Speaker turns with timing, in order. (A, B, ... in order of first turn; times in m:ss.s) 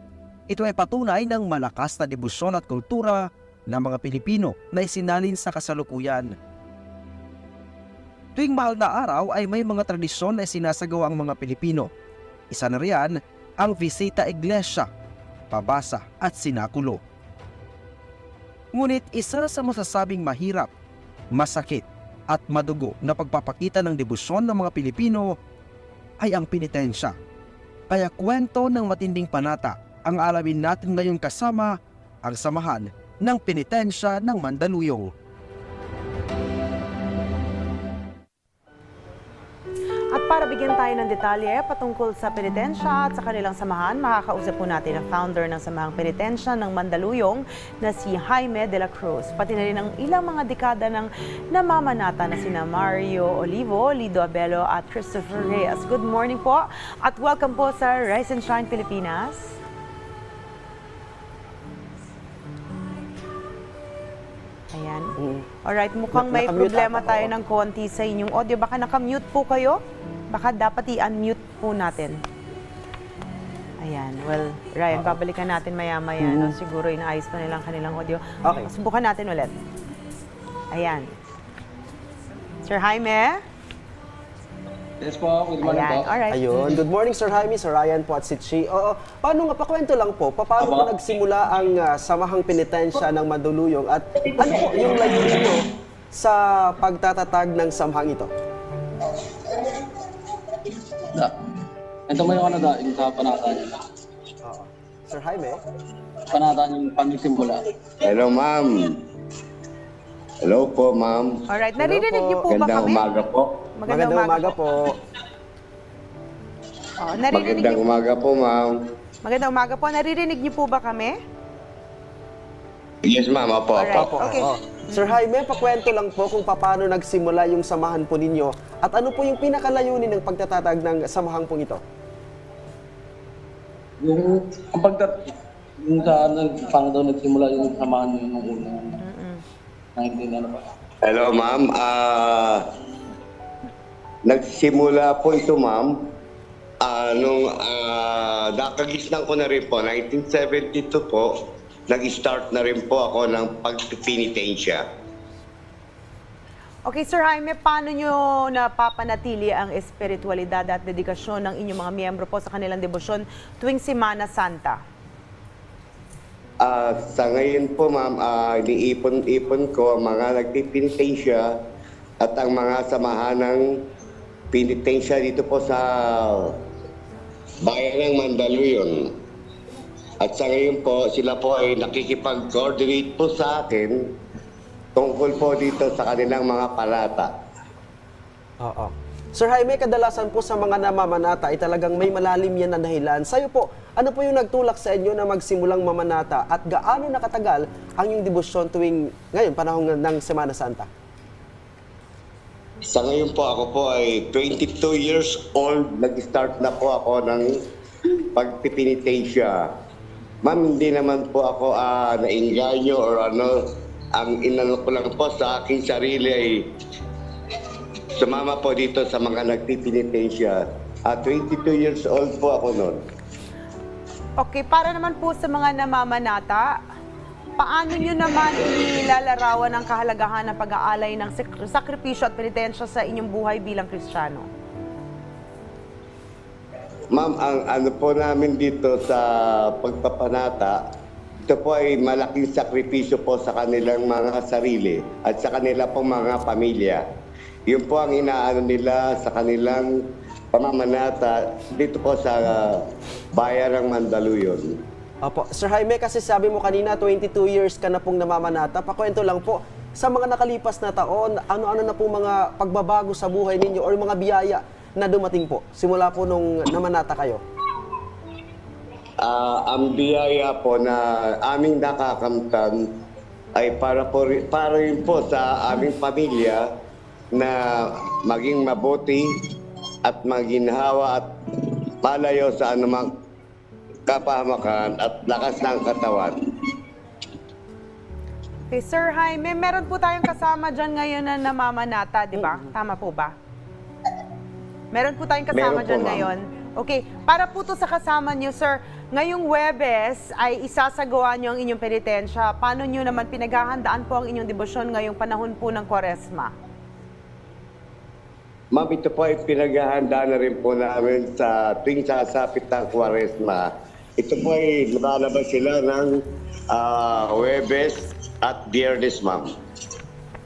0:00.5-0:06.3 A
0:08.4-0:11.9 A
0:12.5-0:14.9 A
0:15.5-0:17.0 A
0:18.7-0:20.7 A
0:21.3-0:25.4 A
0:26.2-0:27.2 A
0:27.9-0:35.1 A
0:40.1-0:59.4 B
1:04.7-1:12.2 B
1:05.2-1:05.5 C
1:06.1-1:07.3 C
1:13.8-1:19.5 B
1:14.9-1:15.2 C
1:16.2-1:16.6 C
1:18.4-1:18.7 C
1:20.7-1:21.1 B
1:22.7-1:23.4 B
1:25.0-1:26.2 D
1:25.6-1:26.4 B
1:26.3-1:38.3 C
1:30.6-1:30.9 D
1:41.0-1:41.3 D
1:42.1-1:43.8 D
1:44.4-1:45.6 C
1:46.3-1:47.6 D
1:48.0-1:49.0 E
1:50.4-1:51.4 E
1:51.5-1:53.1 B
1:51.8-1:52.4 C
1:52.5-1:53.5 E
1:53.8-1:54.6 B
1:53.9-1:55.0 C
1:57.0-1:57.8 B
1:57.3-1:58.8 E
1:59.2-2:01.2 B
2:03.0-2:04.1 E
2:03.7-2:05.1 B
2:03.9-2:11.8 C
2:14.0-2:15.2 D
2:15.8-2:19.0 D
2:19.0-2:19.4 B
2:20.0-2:20.6 D
2:21.0-2:22.6 E
2:24.3-2:25.9 E
2:26.8-2:31.3 E
2:31.9-2:34.8 E
2:36.9-2:44.8 B
2:46.6-2:51.5 E
2:52.2-2:53.6 E
2:54.5-2:56.5 E
2:57.6-2:59.1 E
3:00.2-3:04.0 E
3:05.0-3:07.3 E
3:08.6-3:20.9 C
3:22.9-3:27.6 E
3:28.4-3:29.7 E
3:30.4-3:33.6 E
3:34.1-3:36.6 E
3:38.2-3:43.0 E
3:44.4-3:46.8 B
3:47.6-3:54.5 B
3:57.1-4:00.8 E
4:01.4-4:07.0 E
4:07.7-4:10.0 E
4:10.5-4:12.8 E
4:13.3-4:14.7 E
4:15.2-4:27.4 C
4:29.2-4:32.8 E
4:33.6-4:36.7 E
4:37.3-4:39.5 E
4:40.0-4:41.3 E
4:42.0-4:43.1 E
4:44.1-4:46.4 E
4:48.7-4:53.4 B
4:54.9-5:06.5 B
4:55.5-4:56.3 E
5:08.7-5:19.5 E